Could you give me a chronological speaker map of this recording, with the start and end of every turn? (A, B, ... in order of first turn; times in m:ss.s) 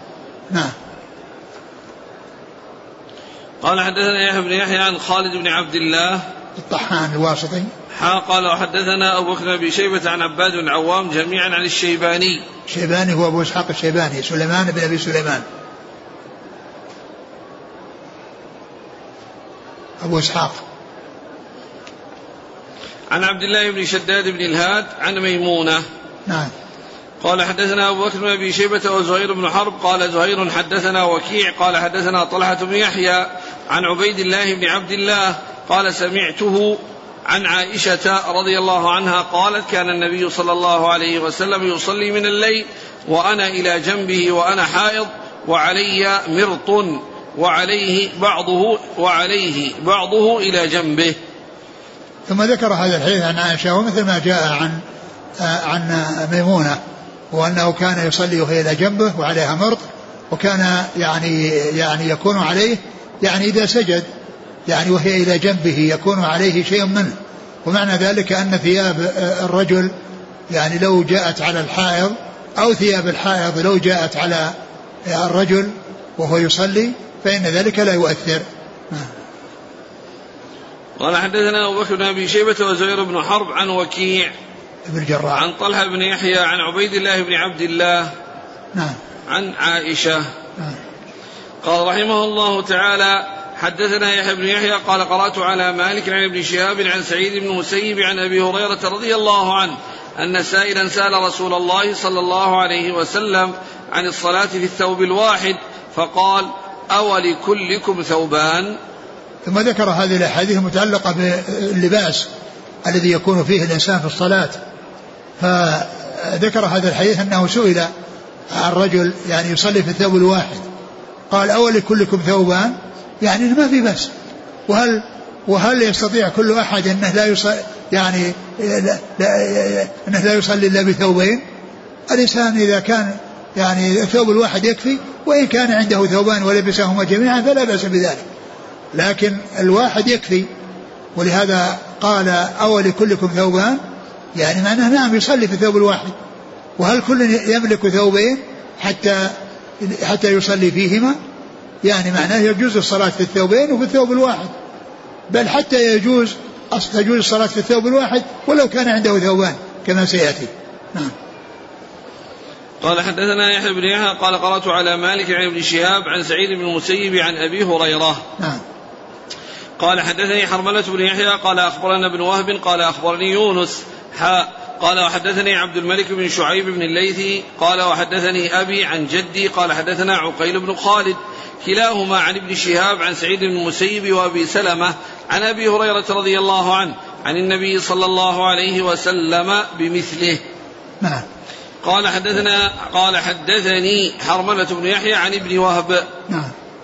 0:03.6-0:06.2 A
0:06.6-0:07.7 B
0:07.9-0:12.4 A
0:12.7-0:15.4 B
0:20.0-0:20.6 B
0:23.1-0:25.8 A
0:27.2-0:51.2 A
0:52.3-0:54.8 B
0:55.4-0:56.8 B
0:57.3-1:04.1 B
1:04.7-1:09.9 B
1:10.5-1:14.5 B
1:15.0-1:19.1 B
1:21.0-1:24.3 A
1:24.9-1:25.4 B
1:25.4-1:28.1 A
1:29.3-1:30.3 A
1:31.6-1:48.8 A
1:49.4-1:52.3 B
1:52.8-1:54.6 B
1:55.4-1:57.9 B
1:58.5-2:00.7 B
2:01.3-2:04.1 B
2:04.7-2:11.4 B
2:12.1-2:18.2 B
2:18.9-2:20.5 B
2:21.2-2:23.8 B
2:24.4-2:26.2 B
2:26.8-2:31.2 B
2:31.8-2:34.5 B
2:35.3-2:41.1 B
2:42.8-2:48.2 A
2:49.8-3:10.4 A
3:11.8-3:16.1 A